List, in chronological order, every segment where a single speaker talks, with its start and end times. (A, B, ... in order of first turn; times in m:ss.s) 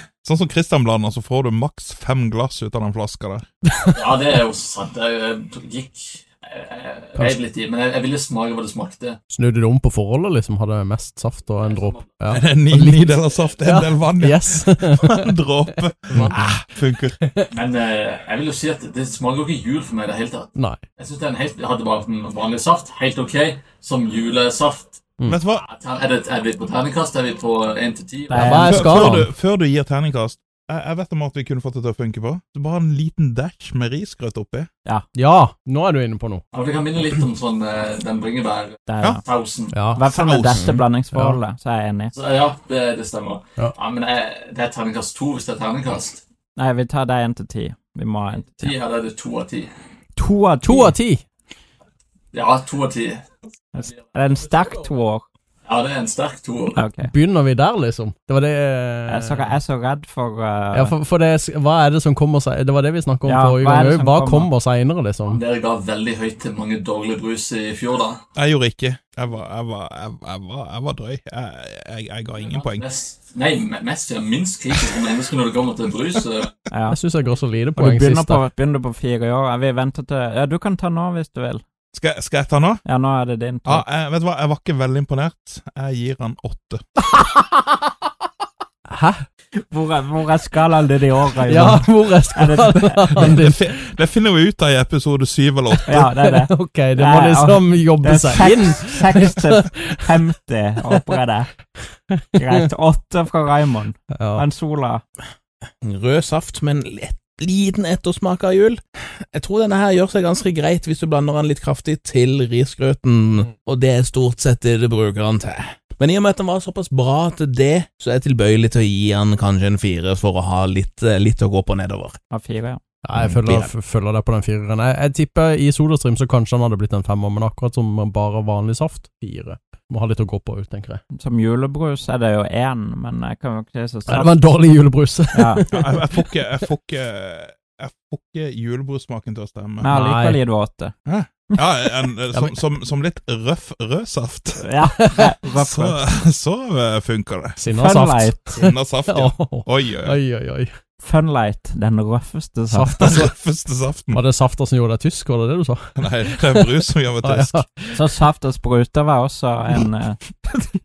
0:00.2-0:03.5 A
0:03.9-0:09.2 B
0:09.3-0:15.3 C
0:11.7-0:12.2 B
0:12.3-0:17.2 A
0:16.1-0:16.5 C
0:17.5-0:28.8 B
0:25.2-0:25.6 A
0:28.3-0:29.0 D
0:28.3-0:29.3 C
0:28.6-0:34.7 A
0:35.1-0:36.4 C
0:36.5-0:39.8 B
0:38.9-0:39.2 D
0:39.7-0:40.0 C
0:39.9-0:42.1 D
0:40.0-0:40.6 A
0:40.6-0:40.8 E
0:41.1-0:41.4 C
0:42.1-0:46.2 B
0:46.6-0:48.8 D
0:48.6-0:49.7 B
0:50.2-0:50.9 D
0:50.6-0:51.2 C
0:52.3-0:53.2 B
0:53.7-0:55.2 D
0:55.6-0:56.8 B
0:56.8-0:57.1 D
0:57.0-0:59.5 C
0:59.1-1:00.9 D
1:00.7-1:05.4 C
1:03.2-1:04.5 D
1:05.2-1:08.2 B
1:08.3-1:12.9 A
1:12.3-1:16.6 B
1:16.7-1:17.0 D
1:16.9-1:18.4 C
1:17.8-1:21.6 D
1:21.9-1:22.8 A
1:22.8-1:23.8 D
1:23.6-1:26.8 A
1:28.9-1:29.2 C
1:29.6-1:33.4 D
1:31.4-1:33.6 C
1:33.3-1:36.1 A
1:35.8-1:40.2 C
1:35.8-1:41.5 D
1:42.1-1:42.6 C
1:42.3-1:45.0 D
1:44.2-1:44.4 C
1:45.8-2:02.2 E
2:02.3-2:02.8 D
2:03.0-2:11.0 C
2:03.1-2:03.7 E
2:11.1-2:14.4 D
2:14.1-2:15.8 C
2:15.3-2:15.8 D
2:15.6-2:19.9 A
2:19.8-2:20.9 D
2:19.9-2:20.4 C
2:21.0-2:24.8 A
2:22.3-2:22.6 C
2:24.6-2:26.0 D
2:25.4-2:27.6 A
2:27.6-2:30.7 C
2:27.7-2:28.4 D
2:28.5-2:30.2 A
2:31.0-2:33.2 D
2:32.7-2:33.3 C
2:33.0-2:34.2 A
2:34.1-2:38.0 C
2:36.0-2:37.6 A
2:37.9-2:40.4 D